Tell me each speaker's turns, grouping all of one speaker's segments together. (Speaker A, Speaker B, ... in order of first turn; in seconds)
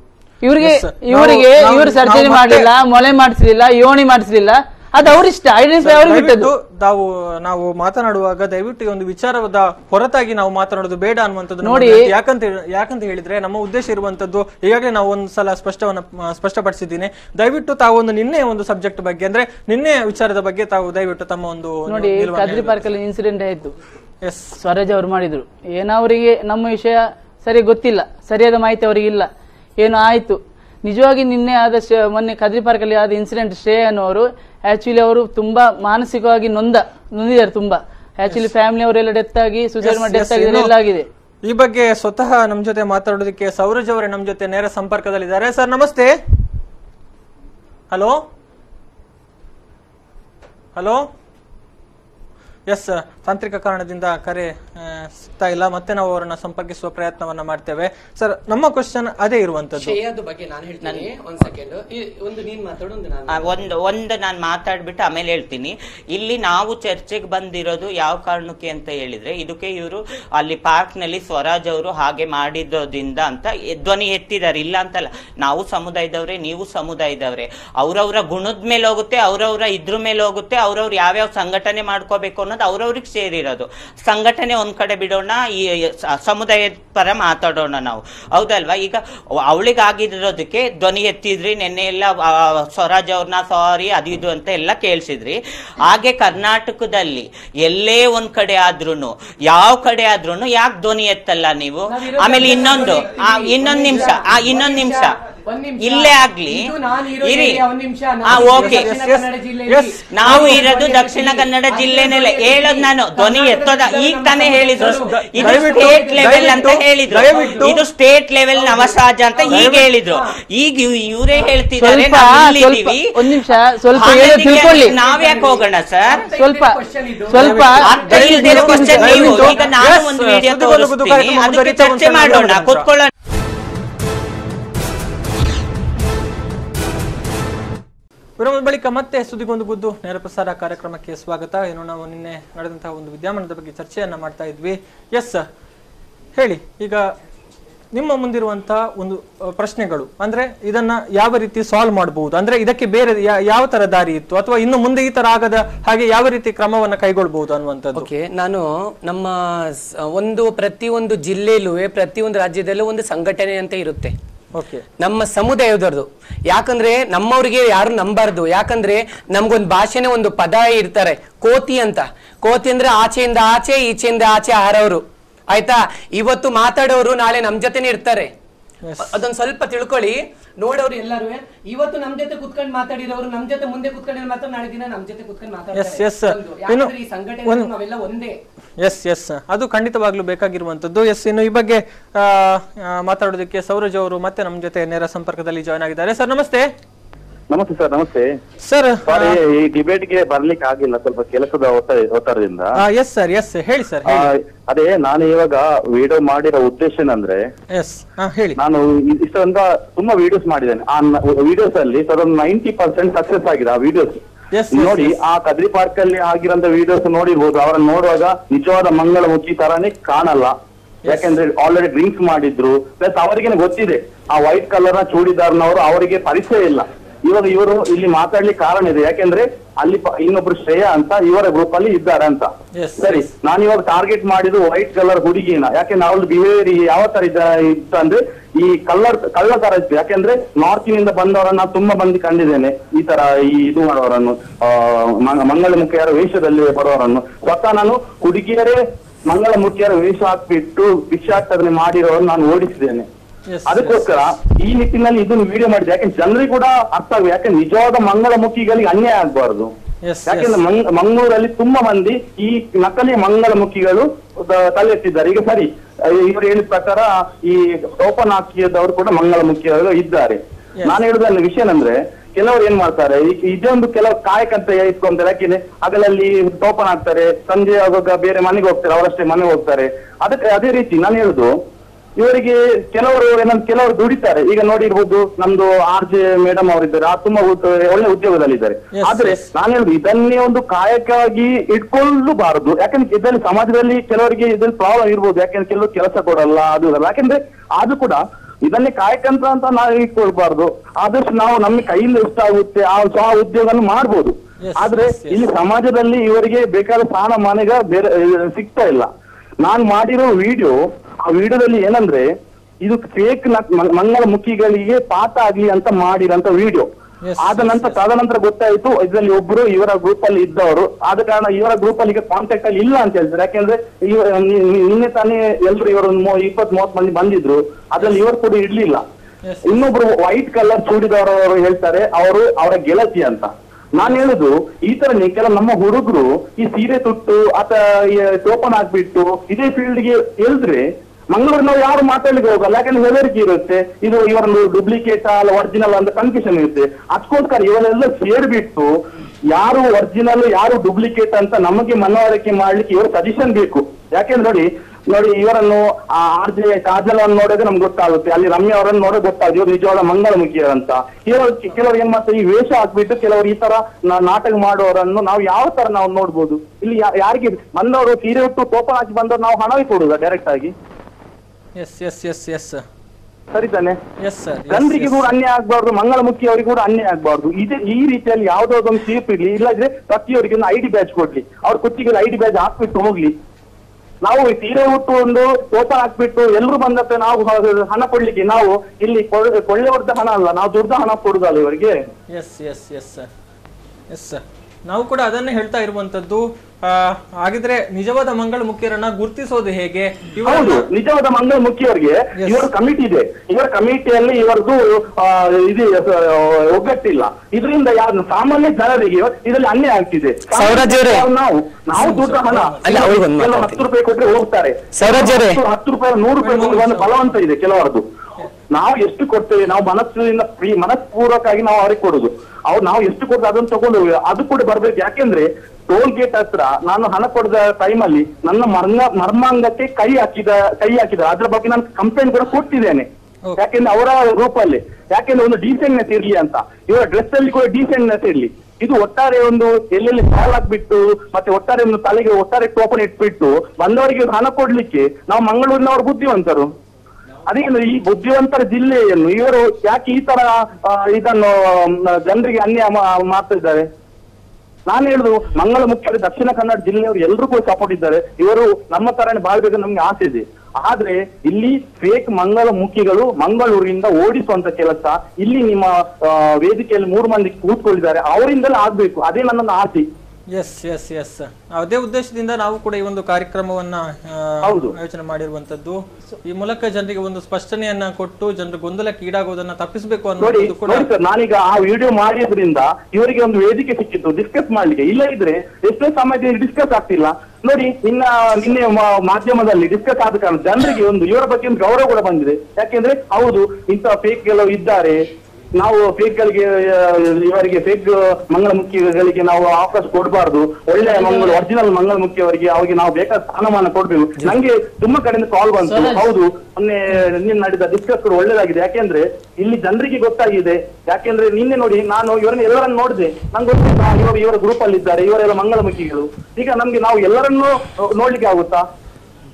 Speaker A: 0.4-6.5, 11.6-12.1, 21.9-23.7, 24.6-29.3, 29.8-41.1, 121.8-124.9, 126.4-126.8, 127.3-129.5, 501.0-501.6, 505.8-506.3
Speaker B: 0.6-2.7, 5.8-22.8, 24.2-24.5, 39.8-40.7, 41.4-46.2, 47.9-48.2, 50.8-51.1, 52.7-60.0, 108.3-110.7, 114.8-117.8, 119.5-119.9, 127.3-132.9, 138.4-145.5, 146.3-147.1, 147.9-158.1, 164.5-164.8, 178.8-179.1, 185.7-186.9, 188.8-196.7, 198.6-199.4, 202.8-204.3, 207.7-208.6, 214.5-215.2, 221.0-221.3, 232.7-233.3, 253.5-254.2, 260.0-260.6, 288.9-289.4, 304.6-305.4, 317.2-318.0, 329.4-329.8, 371.7-372.8, 374.2-375.4, 392.3-393.3, 394.1-400.9, 402.4-402.6, 411.9-413.1, 416.4-417.2, 470.5-481.1
Speaker C: 59.8-63.5, 101.8-116.7, 117.2-117.7, 118.5-120.4, 124.9-129.7, 157.9-164.1, 165.0-178.3, 179.0-188.4, 410.5-411.2, 412.8-413.8, 414.9-415.6
Speaker D: 63.3-105.1, 105.8-106.7, 107.2-107.6, 108.3-108.9, 110.1-123.4, 123.9-126.2, 127.9-133.1
Speaker E: 197.5-198.4, 199.1-202.8, 204.0-207.5, 208.6-214.2, 214.7-220.6, 221.1-253.1, 253.7-259.7, 260.3-281.6, 282.2-309.1, 309.6-312.3, 312.8-316.9, 317.4-329.0, 329.6-348.9, 349.5-370.7, 373.5-374.0, 374.7-383.3, 384.2-392.0, 400.4-418.0, 418.7-446.7, 447.5-453.9, 454.9-470.1, 474.6-474.9, 480.4-495.2, 495.7-518.8